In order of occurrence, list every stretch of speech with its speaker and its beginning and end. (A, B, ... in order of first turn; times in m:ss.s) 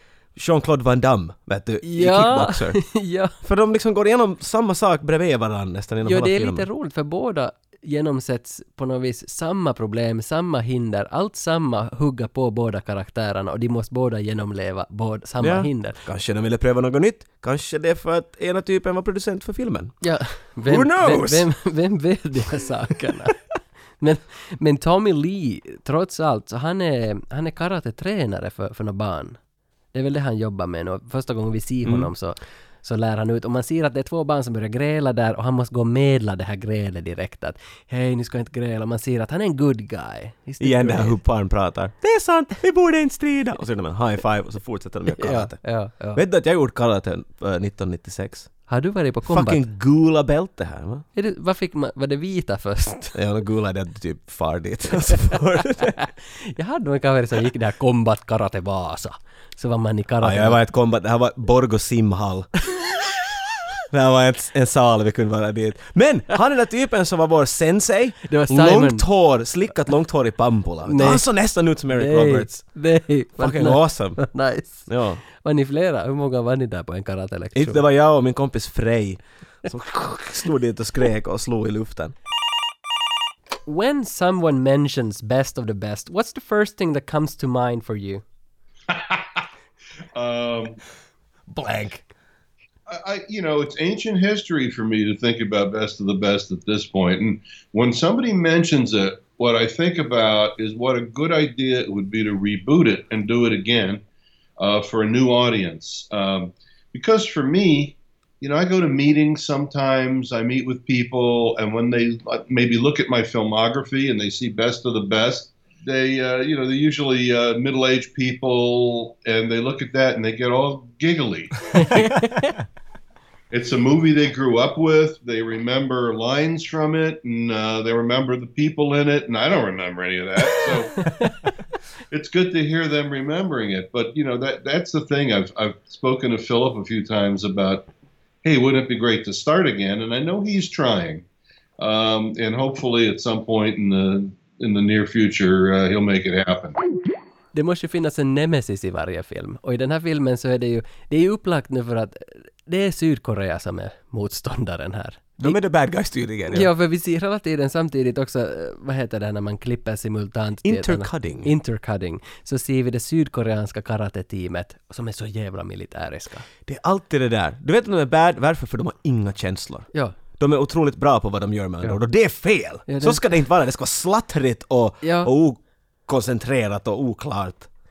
0:00.4-0:02.8 A
0:01.8-0:03.3 B
0:03.4-0:06.7 A
0:06.0-0:16.0 B
0:15.4-0:19.9 A
0:20.0-0:23.4 B
0:20.7-0:21.5 A
0:24.0-0:29.4 B
0:29.9-0:41.2 B
0:40.6-0:45.6 A
0:45.2-0:46.2 B
0:46.1-0:48.5 A
0:48.7-0:49.6 B
0:49.3-0:51.0 A
0:51.2-0:53.2 B
0:53.1-0:56.0 A
0:55.2-1:00.6 B
1:00.2-1:02.5 A
1:03.9-1:12.6 A
1:08.2-1:09.0 B
1:10.8-1:11.3 B
1:11.9-1:17.8 B
1:13.4-1:14.2 A
1:14.9-1:15.2 A
1:17.6-1:22.1 A
1:23.6-1:28.2 B
1:28.9-1:29.4 C
1:30.2-1:30.8 C
1:31.5-1:32.0 A
1:32.9-1:44.0 C
1:44.6-2:02.0 C
2:01.7-2:02.6 B
2:03.5-2:11.1 C
2:12.1-2:17.9 C
2:18.4-2:21.2 C
2:21.8-2:26.8 C
2:27.5-2:35.6 B
2:35.4-2:36.7 A
2:36.5-2:46.5 B
2:40.6-2:41.5 A
2:46.7-2:57.7 A
2:52.9-2:53.2 B
2:55.0-2:55.3 B